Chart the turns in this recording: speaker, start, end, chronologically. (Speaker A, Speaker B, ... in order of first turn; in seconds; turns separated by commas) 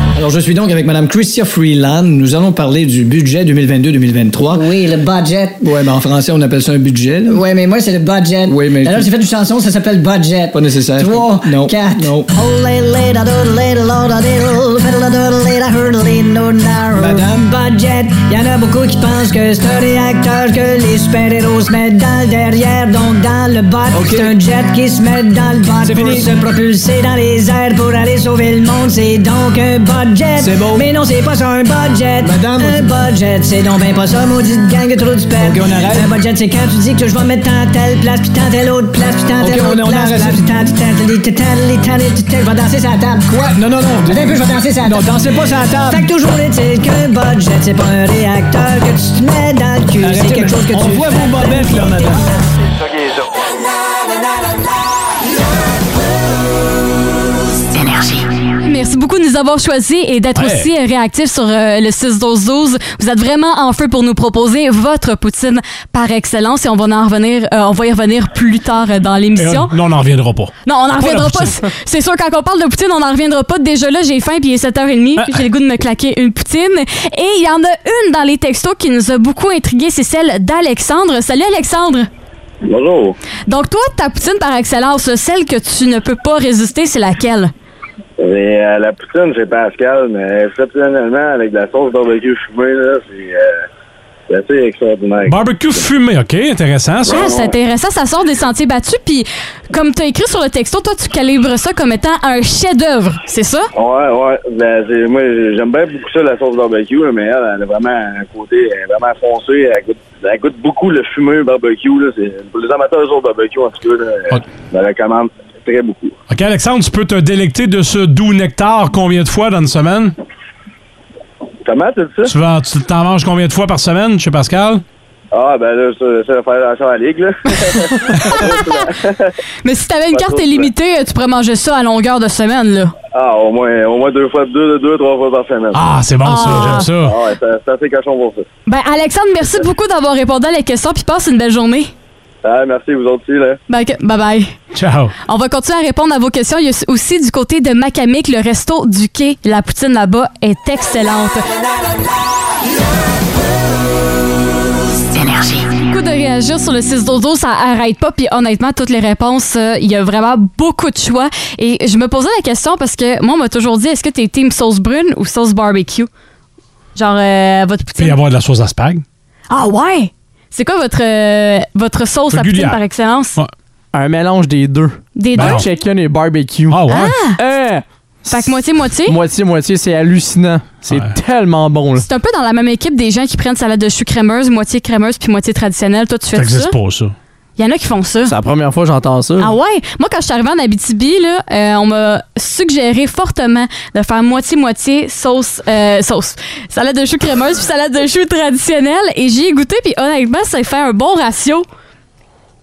Speaker A: 0.1-4.7, Speaker B: 4.5-5.7, Speaker A: 5.6-7.4, Speaker B: 7.3-43.5, Speaker A: 8.5-9.1, Speaker A: 10.5-12.3, Speaker A: 17.0-17.5, Speaker A: 23.9-24.4, Speaker A: 25.8-26.4, Speaker A: 30.4-30.9, Speaker A: 32.2-33.0, Speaker A: 35.4-36.1, Speaker A: 39.4-40.5, Speaker A: 43.3-46.1, Speaker B: 44.0-45.2, Speaker B: 45.9-52.1, Speaker A: 50.0-52.3, Speaker C: 58.6-69.8, Speaker D: 60.4-60.7, Speaker D: 69.4-71.7, Speaker C: 70.7-82.1, Speaker D: 75.2-75.4, Speaker E: 82.7-83.2, Speaker C: 83.5-87.5, Speaker E: 88.2-93.6, Speaker E: 94.3-95.5, Speaker D: 95.2-97.3, Speaker C: 97.1-103.7, Speaker E: 97.1-97.5, Speaker E: 103.8-116.1, Speaker D: 116.3-120.2, Speaker E: 121.7-122.3, Speaker D: 122.3-124.8, Speaker E: 125.3-129.3, Speaker C: 128.2-128.8, Speaker C: 129.6-132.9, Speaker E: 130.1-130.7, Speaker E: 133.2-135.8, Speaker D: 135.7-137.2, Speaker C: 136.2-136.9, Speaker E: 136.5-138.5, Speaker C: 138.7-141.9, Speaker E: 142.4-143.6, Speaker C: 143.7-144.6, Speaker D: 144.7-145.1, Speaker C: 145.3-151.4, Speaker C: 155.8-166.1, Speaker C: 166.9-168.2, Speaker D: 168.0-169.0, Speaker C: 169.5-173.4, Speaker D: 172.3-172.8, Speaker F: 173.9-182.1, Speaker C: 175.2-175.7, Speaker D: 175.4-175.7, Speaker D: 176.7-177.2, Speaker C: 176.9-177.4, Speaker C: 178.3-179.2, Speaker C: 182.0-186.7, Speaker D: 186.3-187.2, Speaker C: 187.6-188.3, Speaker F: 188.3-189.5, Speaker C: 189.4-201.7